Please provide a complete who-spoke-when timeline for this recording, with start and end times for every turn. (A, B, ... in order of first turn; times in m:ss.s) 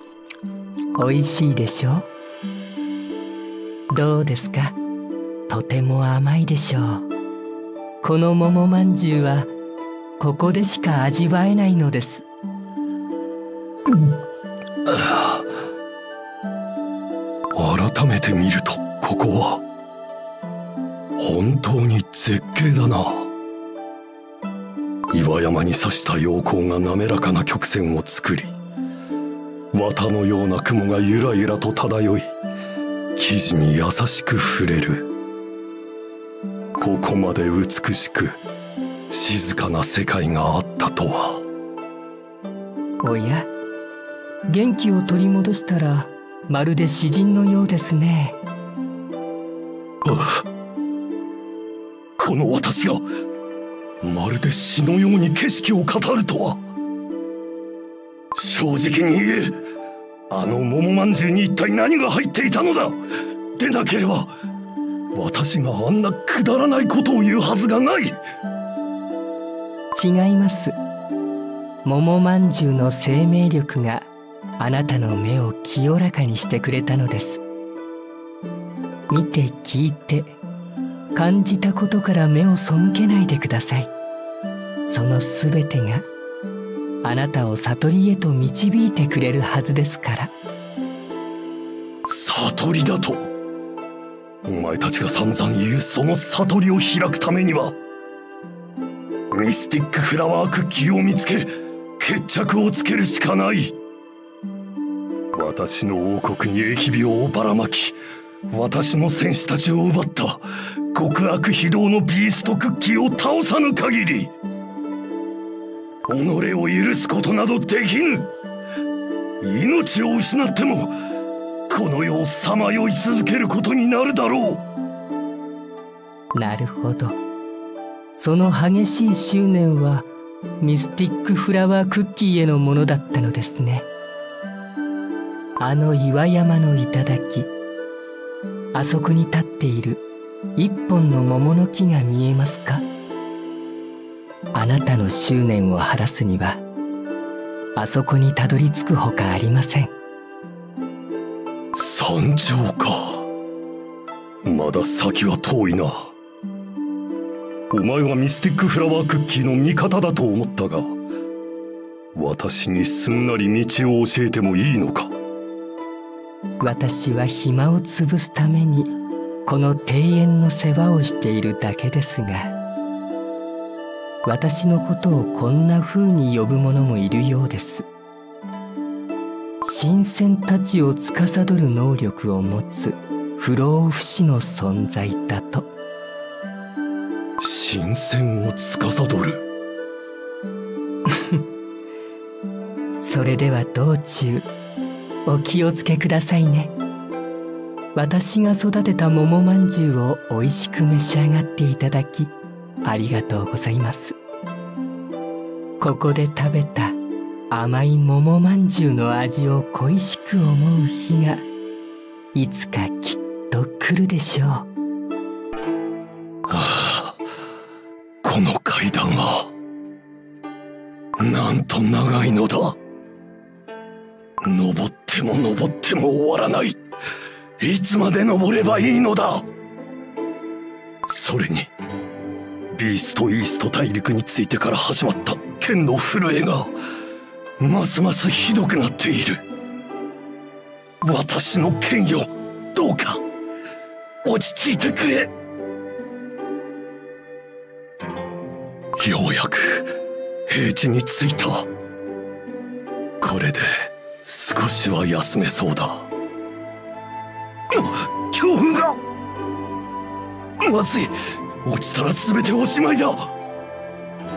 0:01.0-0:02.1 A
0:03.9-0:04.8 A
0:05.5-0:07.1 A
0:08.0-0:09.5 A
0:10.2-0:12.2 A
0:14.9-0:15.5 B
0:17.5-0:19.6 B
0:21.2-0:23.3 B
0:25.1-0:28.5 B
0:29.7-0:32.3 B
0:33.2-0:35.1 B
0:36.8-0:38.4 B
0:39.1-0:41.4 B
0:43.0-0:43.5 A
0:44.4-0:48.4 A
0:50.0-0:50.4 B
0:52.2-0:53.0 B
0:54.0-0:56.6 B
0:58.4-0:59.6 B
1:00.3-1:03.0 B
1:03.6-1:04.3 B
1:05.1-1:08.2 B
1:09.9-1:10.8 A
1:11.8-1:14.1 A
1:14.6-1:17.4 A
1:19.1-1:20.4 A
1:21.1-1:23.9 A
1:24.9-1:26.1 A
1:27.0-1:30.3 A
1:32.0-1:33.3 B
1:34.4-1:37.8 B
1:39.3-1:43.8 B
1:45.3-1:48.0 B
1:48.5-1:54.3 B
1:56.1-1:58.3 B
1:59.4-2:00.9 B
2:01.7-2:04.6 B
2:06.3-2:07.2 A
2:08.2-2:10.1 A
2:10.6-2:13.9 A
2:15.6-2:17.5 A
2:18.7-2:20.0 A
2:20.6-2:22.8 A
2:24.5-2:26.6 A
2:27.8-2:29.9 A
2:31.7-2:33.2 B
2:34.4-2:36.1 B
2:37.7-2:40.9 B
2:42.1-2:45.1 B
2:46.6-2:48.9 A
2:49.4-2:52.5 A
2:54.2-2:57.9 A
2:59.6-3:05.7 A
3:07.4-3:09.4 B
3:13.0-3:14.5 A
3:15.3-3:16.7 A
3:17.9-3:22.3 A
3:22.8-3:24.2 A
3:25.8-3:27.0 A
3:27.5-3:31.4 A
3:32.3-3:34.7 A
3:36.5-3:37.2 B
3:38.2-3:39.5 B
3:41.2-3:42.8 B
3:44.4-3:46.8 B
3:47.6-3:49.4 B
3:51.1-3:51.7 B
3:52.7-3:56.7 B
3:57.6-3:59.4 B
4:01.0-4:03.2 B
4:04.2-4:05.3 B
4:09.0-4:09.9 B
4:10.5-4:11.6 B
4:13.2-4:16.1 B
4:17.7-4:19.0 B
4:20.6-4:23.3 B